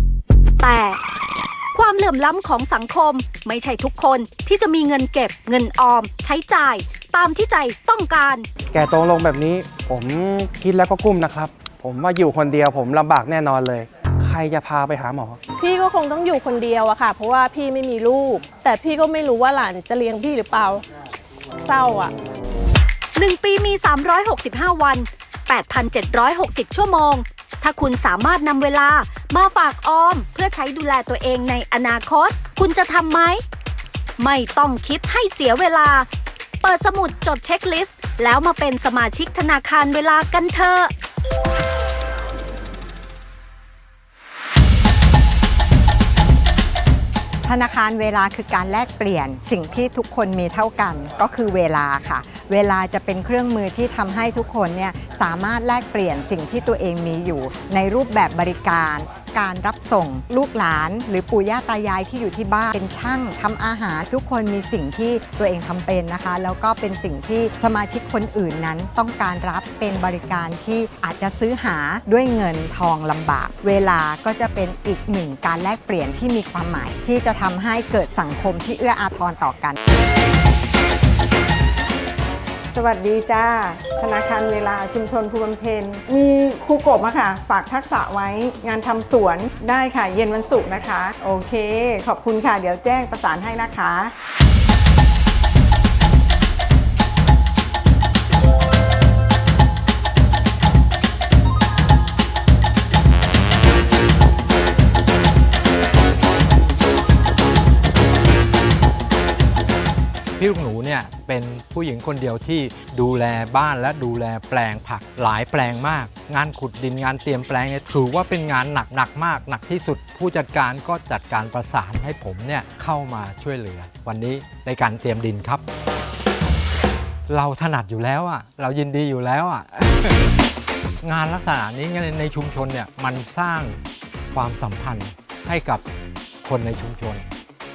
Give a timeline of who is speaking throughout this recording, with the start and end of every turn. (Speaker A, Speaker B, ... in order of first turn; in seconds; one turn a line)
Speaker A: 0.6-1.0
Speaker A: 1.7-8.5
Speaker B: 8.7-15.4
Speaker C: 15.6-20.8
Speaker C: 21.6-22.1
Speaker A: 23.1-33.4
Speaker A: 34.2-36.1
Speaker A: 36.6-40.9
Speaker D: 47.4-79.8
Speaker E: 82.7-94.1
Speaker F: 110.4-125.6
Speaker F: 127.3-130.1
Speaker F: 131.0-133.8
Speaker F: 134.3-135.8
Speaker F: 136.4-137.2